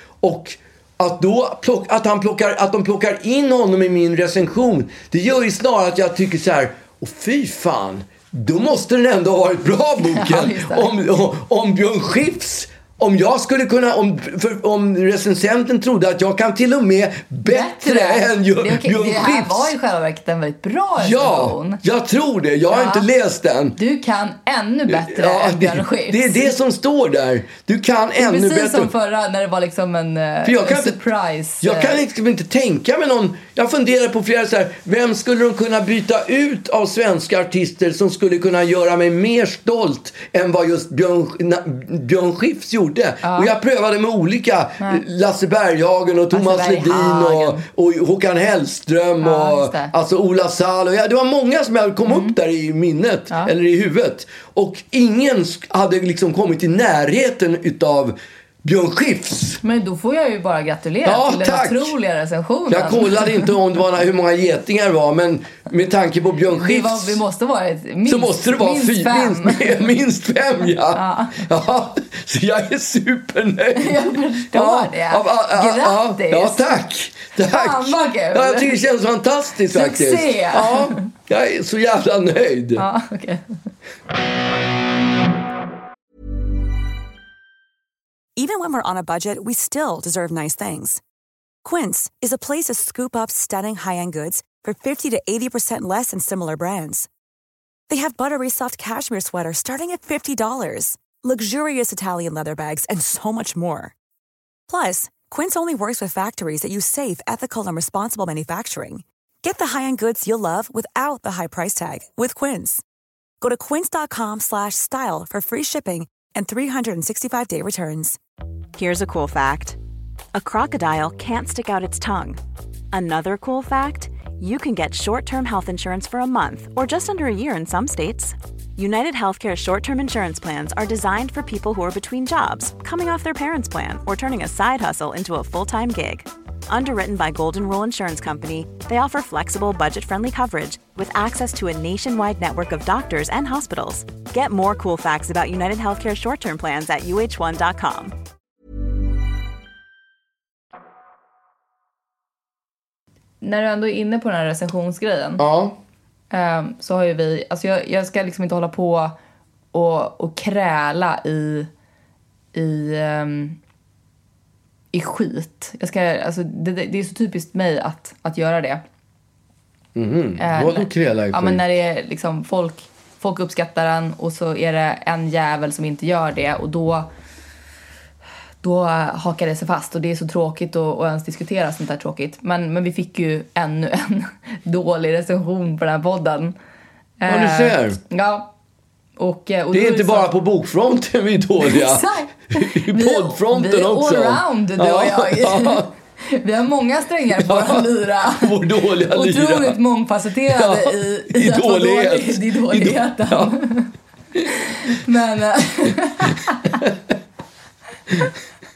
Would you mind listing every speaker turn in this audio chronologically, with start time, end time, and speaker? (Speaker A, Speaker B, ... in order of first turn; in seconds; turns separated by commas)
Speaker A: 0.2-19.7, Speaker B: 10.0-10.9, Speaker B: 17.4-21.8, Speaker A: 21.0-23.8, Speaker B: 22.7-23.1, Speaker B: 23.8-26.5, Speaker A: 24.9-28.9, Speaker B: 28.2-32.0, Speaker A: 30.4-31.0, Speaker A: 31.6-59.6, Speaker B: 43.2-43.5, Speaker B: 46.3-47.6, Speaker B: 49.2-49.9, Speaker B: 52.1-52.3, Speaker B: 59.6-63.5, Speaker A: 61.0-61.9, Speaker A: 62.7-67.2, Speaker B: 66.5-69.9, Speaker A: 68.1-82.9, Speaker B: 70.9-71.5, Speaker B: 73.8-76.7, Speaker B: 77.4-78.8, Speaker B: 79.7-81.1, Speaker B: 82.8-83.5, Speaker C: 88.4-91.0, Speaker C: 91.6-97.1, Speaker C: 97.9-103.9, Speaker C: 104.7-112.8, Speaker C: 113.4-118.2, Speaker D: 118.7-119.8, Speaker D: 120.3-122.4, Speaker D: 122.9-148.2, Speaker B: 153.4-155.4, Speaker A: 155.4-155.8, Speaker B: 156.3-159.1, Speaker B: 159.7-161.7, Speaker B: 162.5-163.6, Speaker B: 164.9-168.8, Speaker A: 169.9-171.6, Speaker B: 170.4-177.1, Speaker B: 178.6-186.6, Speaker B: 187.2-188.5, Speaker A: 187.3-188.0, Speaker B: 189.2-190.3, Speaker A: 189.7-195.9, Speaker B: 191.6-206.8, Speaker A: 197.3-199.8, Speaker A: 200.5-203.6, Speaker A: 206.7-207.0